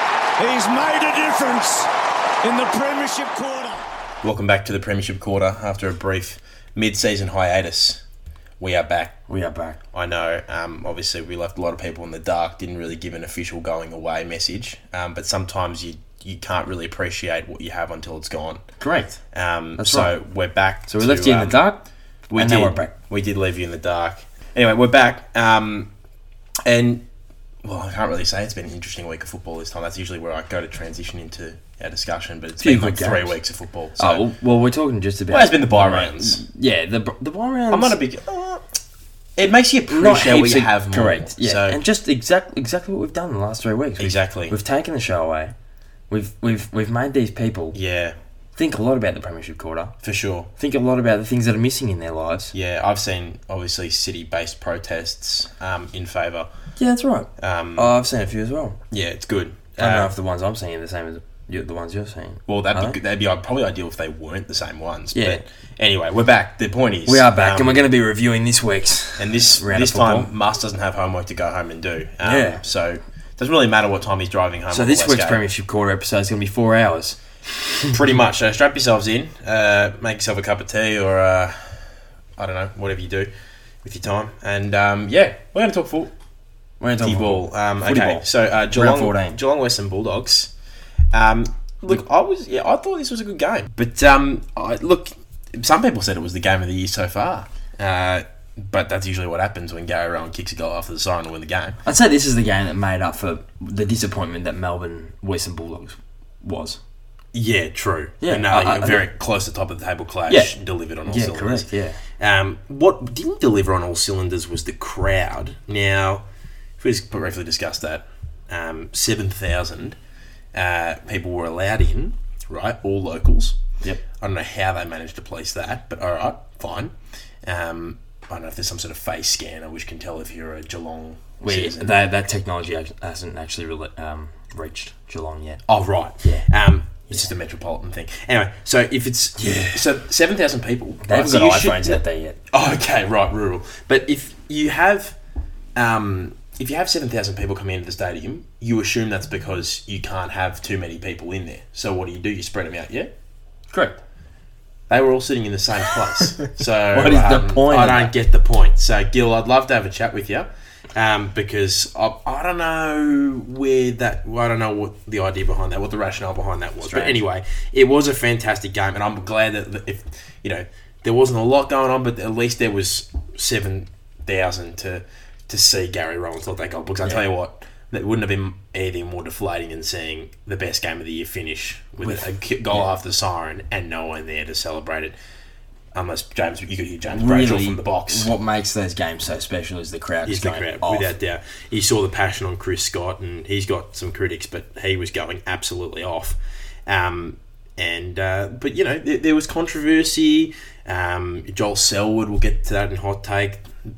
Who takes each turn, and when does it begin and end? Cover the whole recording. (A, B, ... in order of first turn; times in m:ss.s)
0:00.4-0:01.9 A
0:02.4-0:03.8 A
0:04.2-0:08.0 B
0:08.6-0:09.2 B
0:09.3-0:09.8 C
0:09.9-0:18.6 B
0:18.8-0:19.2 C
0:19.3-0:21.6 B
0:19.8-0:20.1 C
0:20.9-0:22.9 C
0:22.3-0:25.9 B
0:26.6-0:27.0 B
0:27.6-0:34.2 B
0:32.6-0:33.4 C
0:34.0-0:38.0 C
0:35.3-0:36.4 B
0:37.7-0:38.7 B
0:39.4-0:41.8 B
0:39.9-0:45.5 C
0:44.0-0:44.6 B
0:46.1-0:47.8 C
0:47.7-0:48.2 B
0:48.6-0:49.9 C
0:50.0-0:50.5 B
0:50.6-0:52.5 C
0:52.5-0:56.5 B
0:56.8-0:58.8 C
0:57.4-0:57.9 B
0:58.9-1:00.1 B
0:59.8-1:03.0 C
1:02.5-1:07.8 B
1:05.1-1:05.4 C
1:07.0-1:10.3 C
1:09.2-1:15.4 B
1:12.2-1:12.6 C
1:14.7-1:17.9 C
1:17.9-1:21.8 B
1:22.4-1:23.3 B
1:23.8-1:26.1 B
1:26.8-1:29.4 C
1:27.0-1:30.5 B
1:31.1-1:41.8 B
1:41.8-1:46.8 C
1:47.3-1:56.2 B
1:48.2-1:49.0 C
1:50.3-1:50.5 C
1:51.0-1:52.0 C
1:56.8-2:00.0 B
2:00.5-2:03.6 B
2:04.2-2:12.0 B
2:11.4-2:15.6 C
2:15.7-2:25.2 B
2:16.2-2:16.5 C
2:19.4-2:19.8 C
2:21.0-2:22.4 C
2:25.8-2:33.1 B
2:33.7-2:34.0 C
2:34.9-3:05.1 B
2:36.9-2:38.1 C
2:46.8-2:47.2 C
3:02.0-3:02.9 C
3:05.9-3:08.3 B
3:07.1-3:11.1 C
3:10.2-3:23.7 B